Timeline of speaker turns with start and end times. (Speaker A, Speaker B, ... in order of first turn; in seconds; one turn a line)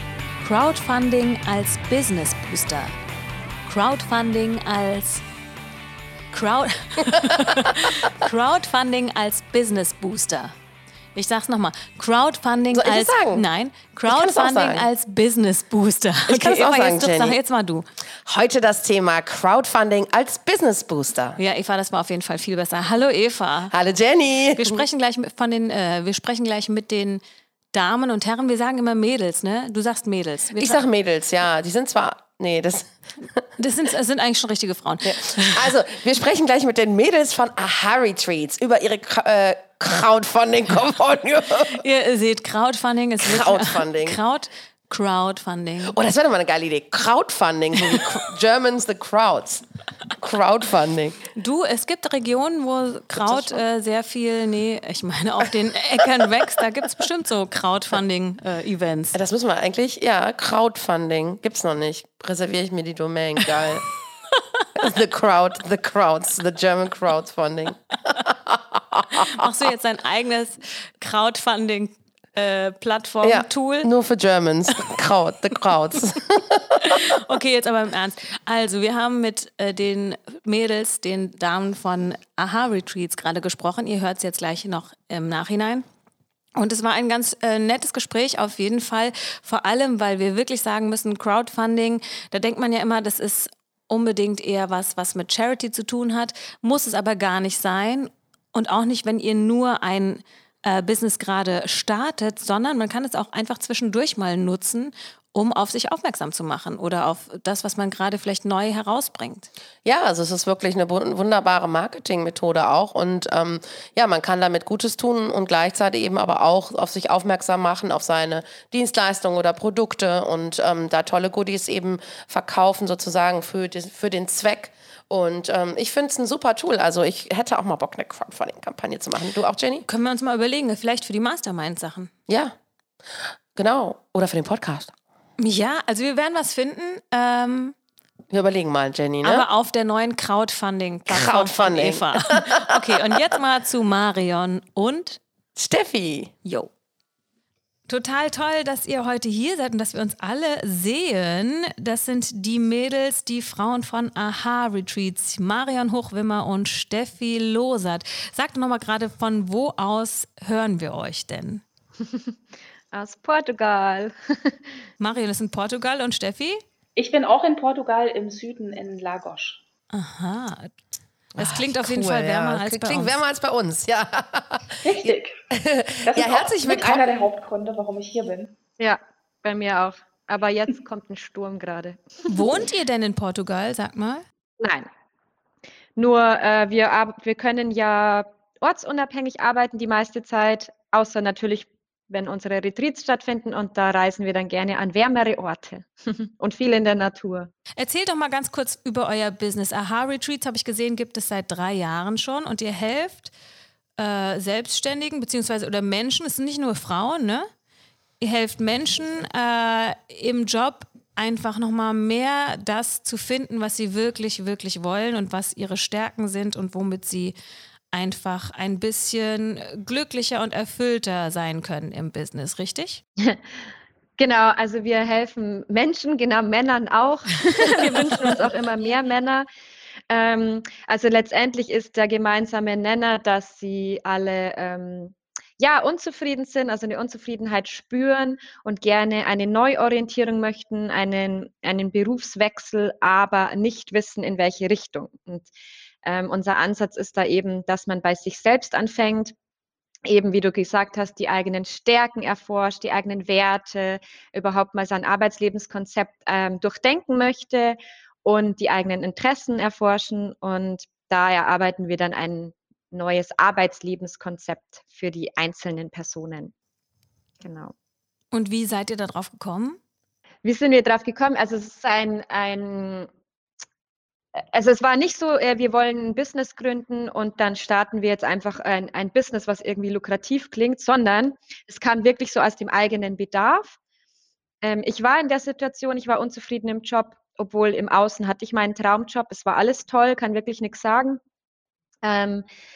Speaker A: 0.4-2.9
Speaker A: 3.6-5.2
Speaker A: 6.3-10.5
Speaker A: 11.1-17.8
Speaker B: 12.7-13.4
Speaker B: 14.1-14.9
Speaker B: 16.3-17.4
Speaker B: 18.2-21.4
Speaker A: 21.4-23.7
Speaker B: 23.7-24.8
Speaker A: 24.6-27.2
Speaker A: 27.7-30.8
Speaker B: 30.6-32.9
Speaker A: 33.6-35.6
Speaker B: 35.0-41.8
Speaker A: 41.7-45.9
Speaker B: 43.2-44.2
Speaker B: 45.9-49.6
Speaker B: 50.2-51.2
Speaker A: 51.3-59.2
Speaker B: 53.1-53.6
Speaker B: 59.1-63.9
Speaker B: 64.8-69.5
Speaker A: 69.3-73.9
Speaker B: 73.2-77.1
Speaker A: 76.8-85.8
Speaker A: 86.5-109.5
Speaker B: 109.8-129.8
Speaker A: 129.8-132.1
Speaker B: 132.3-132.5
Speaker B: 133.2-134.9
Speaker A: 135.4-137.8
Speaker B: 138.3-139.4
Speaker A: 139.2-145.2
Speaker B: 141.1-143.2
Speaker B: 145.6-146.3
Speaker A: 146.4-146.7
Speaker A: 147.9-161.6
Speaker C: 162.9-164.6
Speaker A: 165.0-166.6
Speaker D: 166.9-169.6
Speaker A: 169.9-170.7
Speaker A: 171.4-173.2
Speaker B: 171.4-177.0
Speaker D: 174.8-175.3
Speaker D: 176.1-178.5
Speaker C: 178.8-182.3
Speaker A: 182.2-184.2
Speaker C: 184.6-184.9
Speaker C: 186.0-197.5
Speaker A: 197.8-203.3
Speaker A: 204.0-207.5
Speaker A: 208.2-217.3
Speaker A: 217.9-223.0
Speaker C: 223.2-229.4
Speaker A: 227.9-228.4
Speaker C: 230.1-245.5
Speaker C: 246.0-249.3
Speaker C: 250.1-266.5
Speaker C: 267.4-267.7
Speaker A: 268.3-269.8
Speaker C: 270.4-273.1
Speaker C: 274.4-283.8
Speaker C: 284.6-291.2
Speaker C: 292.0-292.4